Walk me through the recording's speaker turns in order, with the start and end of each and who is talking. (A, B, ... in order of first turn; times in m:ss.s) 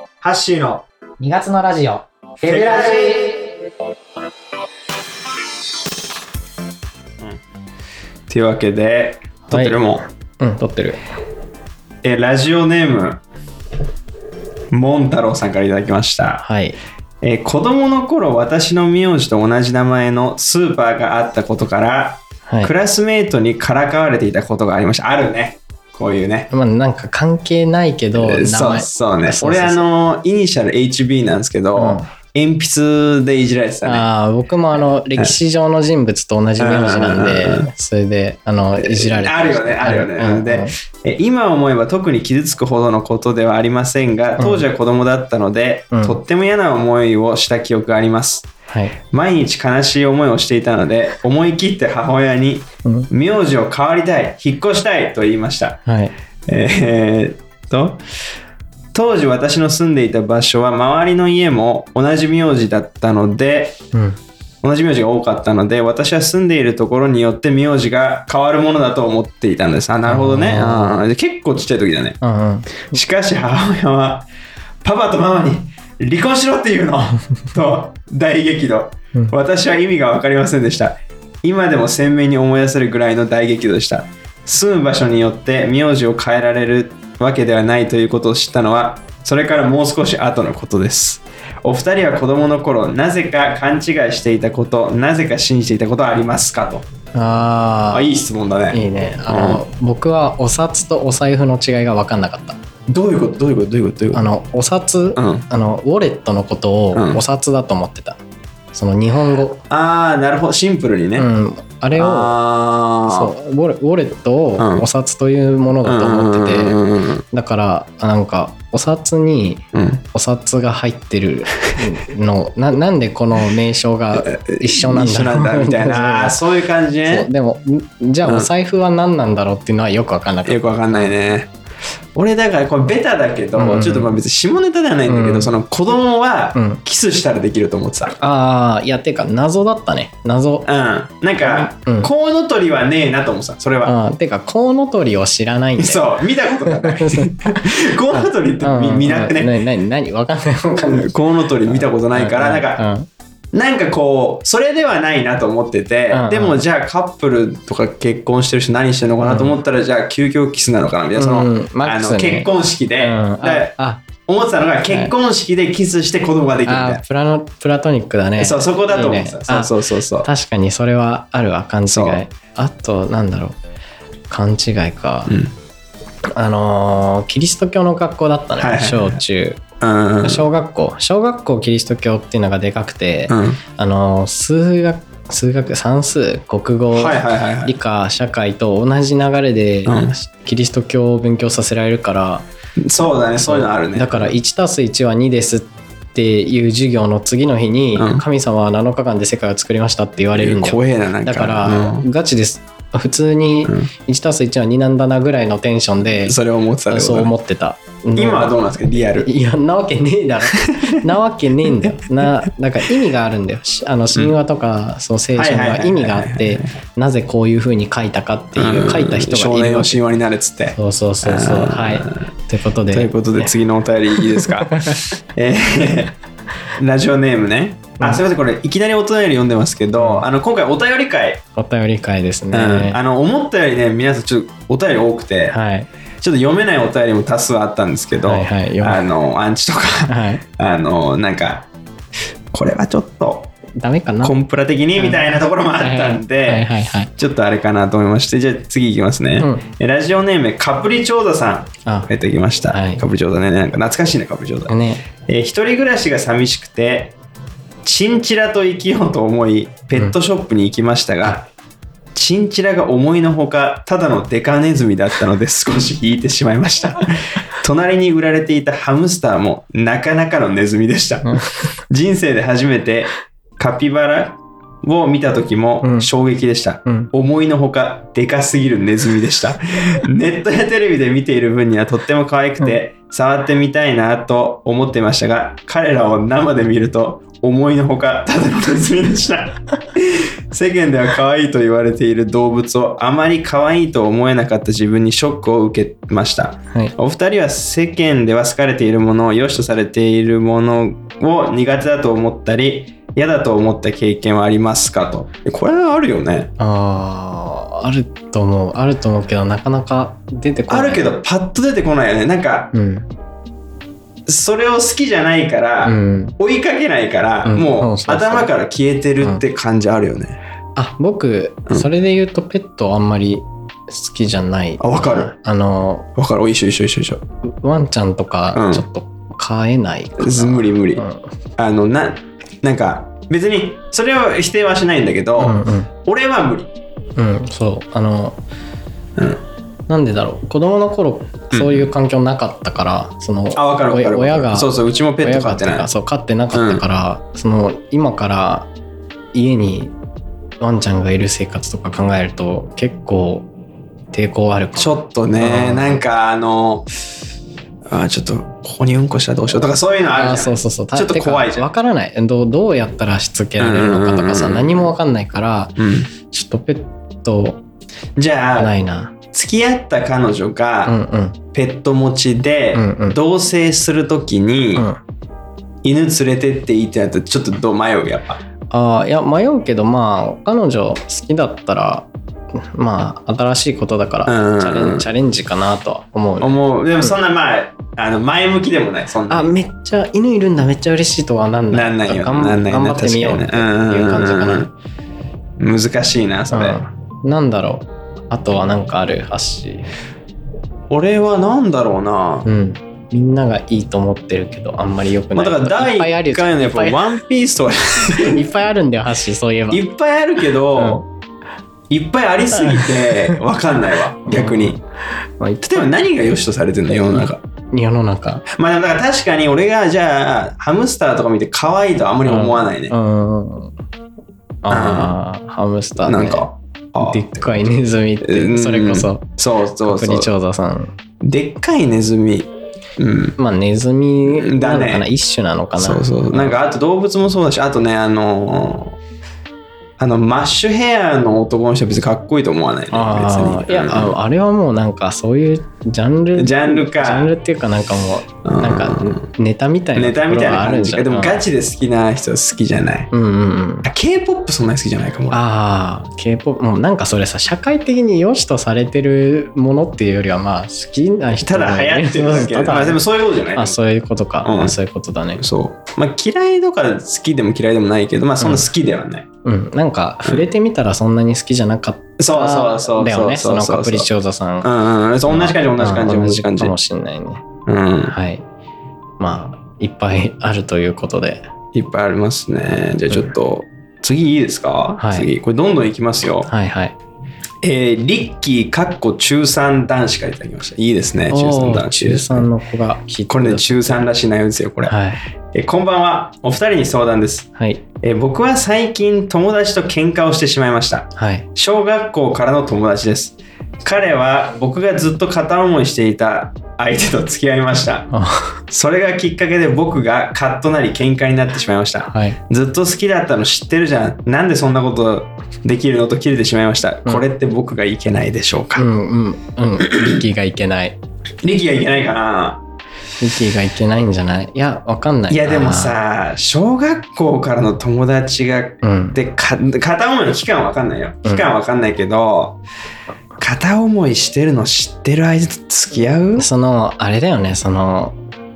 0:00.2-0:00.8 A
0:01.2-0:03.4 B
0:02.4-0:03.3 A
0:08.3-0:10.0 A
0:09.5-0:09.8 C
0:10.4-0:11.0 C
0:12.0-0:13.2 A
0:14.7-0:16.4 A
0:16.4-0:16.8 C
0:17.2-0:26.5 A
0:26.5-0:29.8 C
0:28.1-0:34.0 A
0:31.8-0:32.1 C
0:33.8-0:40.7 C
0:36.6-0:37.7 A
0:38.8-0:48.5 A
0:44.4-0:44.6 C
0:45.9-0:46.2 C
0:48.7-0:49.0 C
0:49.1-0:55.8 A
0:55.8-0:56.1 C
0:56.5-0:58.0 A
0:58.9-1:03.8 A
1:03.9-1:04.2 C
1:04.6-1:12.2 A
1:10.1-1:11.0 C
1:12.2-1:12.9 C
1:12.9-1:14.3 A
1:14.8-1:36.9 A
1:37.1-1:38.2 C
1:37.9-1:39.6 A
1:38.7-1:42.6 C
1:42.9-1:44.3 A
1:44.1-1:48.2 C
1:45.2-1:45.4 A
1:46.9-1:47.2 A
1:48.7-1:49.6 C
1:49.7-1:51.3 A
1:51.2-1:52.3 C
1:52.0-1:53.3 A
1:53.1-1:56.8 C
1:54.6-1:54.8 A
1:55.8-1:57.2 A
1:57.3-2:06.4 C
1:59.7-2:00.0 A
2:04.1-2:07.3 A
2:07.0-2:11.1 C
2:08.2-2:08.5 A
2:10.4-2:11.5 A
2:12.1-2:18.2 A
2:13.6-2:14.1 C
2:15.1-2:15.5 C
2:16.5-2:16.8 C
2:18.2-2:20.7 C
2:20.6-2:23.9 A
2:21.4-2:22.1 C
2:23.8-2:31.1 C
2:25.8-2:29.6 A
2:30.8-2:32.8 A
2:31.8-2:33.1 C
2:33.5-2:47.0 A
2:36.1-2:36.6 C
2:39.2-2:39.6 C
2:41.2-2:44.0 C
2:46.6-2:49.7 C
2:48.4-2:50.3 A
2:50.2-2:53.6 C
2:51.9-2:52.2 A
2:54.3-2:55.4 C
2:55.3-2:55.5 A
2:56.3-2:59.6 C
2:58.6-2:59.2 A
2:59.8-3:00.4 A
3:00.2-3:12.4 C
3:03.3-3:03.6 A
3:06.9-3:07.7 A
3:09.8-3:10.2 A
3:12.8-3:14.3 A
3:13.4-3:26.4 C
3:18.0-3:18.2 A
3:20.3-3:22.1 A
3:26.2-3:27.3 A
3:26.9-3:28.6 C
3:28.2-3:29.3 A
3:29.2-3:40.0 C
3:30.5-3:31.0 A
3:35.4-3:36.7 A
3:38.6-3:42.2 A
3:40.7-3:43.5 C
3:42.9-3:46.1 A
3:44.1-3:45.0 C
3:46.8-3:51.4 A
3:50.0-3:50.2 C
3:51.5-3:53.0 C
3:52.5-3:55.6 A
3:55.5-3:55.9 C
3:56.2-4:01.7 A
3:58.2-3:59.0 C
4:00.1-4:00.4 C
4:02.5-4:03.5 A
4:03.8-4:04.4 C
4:04.2-4:17.1 A
4:05.0-4:07.1 C
4:09.4-4:09.6 C
4:12.7-4:13.0 C
4:14.7-4:15.0 C
4:17.8-4:21.4 A
4:22.1-5:06.5 A
4:31.2-4:31.6 C
4:35.8-4:36.1 C
5:06.6-5:11.1 C
5:10.7-5:12.7 A
5:12.7-5:13.1 C
5:14.3-5:20.4 A
5:15.8-5:16.4 C
5:17.4-5:18.5 C
5:20.8-5:26.1 C
5:24.8-5:25.3 A
5:26.2-5:27.2 A
5:27.6-5:31.2 C
5:28.5-5:28.8 A
5:30.2-5:31.0 A
5:31.6-5:36.7 A
5:35.4-5:35.9 C
5:37.2-5:38.4 C
5:39.2-5:39.4 A
5:39.9-5:44.7 C
5:41.5-5:41.9 A
5:43.5-5:45.9 A
5:45.2-5:48.7 C
5:46.5-5:46.8 A
5:49.3-5:49.9 C
5:50.6-5:53.5 C
5:54.1-5:56.0 C
5:54.8-5:56.9 A
5:57.9-6:01.7 A
6:00.2-6:07.6 C
6:03.6-6:04.9 A
6:05.8-6:06.1 A
6:08.2-6:08.7 A
6:08.6-6:09.1 C
6:09.3-6:11.0 A
6:10.8-6:11.4 C
6:11.5-6:14.9 A
6:12.7-6:13.2 C
6:15.8-6:18.4 A
6:18.7-6:22.1 C
6:22.6-6:27.2 C
6:24.2-6:25.1 A
6:26.4-6:29.5 A
6:29.3-6:34.7 C
6:31.7-6:34.7 A
6:35.6-6:36.8 A
6:36.5-6:39.9 C
6:40.9-6:42.5 A
6:42.4-6:47.0 C
6:45.3-6:48.5 A
6:48.1-6:49.8 C
6:49.7-6:51.0 A
6:50.8-6:51.0 C
6:51.9-6:54.8 A
6:52.6-6:53.4 C
6:54.2-6:54.8 C
6:55.4-6:55.8 C
6:55.6-6:57.4 A
6:57.2-6:58.4 C
6:58.5-7:02.9 A
7:02.2-7:03.7 C
7:04.6-7:09.3 C
7:04.7-7:05.1 A
7:06.0-7:07.7 A
7:08.2-7:10.3 A
7:09.8-7:10.9 C
7:11.2-7:13.4 A
7:13.4-7:16.5 C
7:14.3-7:15.1 A
7:15.8-7:19.0 A
7:20.0-7:24.2 A
7:22.9-7:31.4 C
7:26.3-7:27.3 A
7:28.4-7:29.2 A
7:29.9-7:33.1 A
7:33.1-7:33.9 C
7:33.8-7:35.4 A
7:35.3-7:43.0 C
7:41.4-7:43.8 A
7:43.5-7:45.4 C
7:44.4-7:44.8 A
7:45.4-7:49.3 A
7:48.4-7:48.7 C
7:49.4-7:54.7 C
7:52.2-7:54.1 A
7:54.6-7:56.7 A
7:55.3-7:57.4 C
7:57.7-7:58.1 A
7:58.1-7:58.4 C
7:59.2-8:01.4 C
8:01.7-8:06.5 A
8:05.0-8:05.3 C
8:06.4-8:07.0 C
8:07.6-8:12.5 A
8:11.3-8:14.0 C
8:13.3-8:14.9 A
8:14.8-8:15.2 C
8:15.5-8:17.5 A
8:18.0-8:28.1 A
8:21.2-8:21.5 C
8:28.1-8:28.6 C
8:28.7-8:38.9 A
8:32.1-8:32.4 C
8:38.8-8:41.0 C
8:39.8-8:40.2 A
8:41.4-8:42.6 A
8:43.2-8:46.0 C
8:45.3-8:52.6 A
8:48.8-8:49.2 C
8:53.4-8:56.5 A
8:56.4-8:58.2 C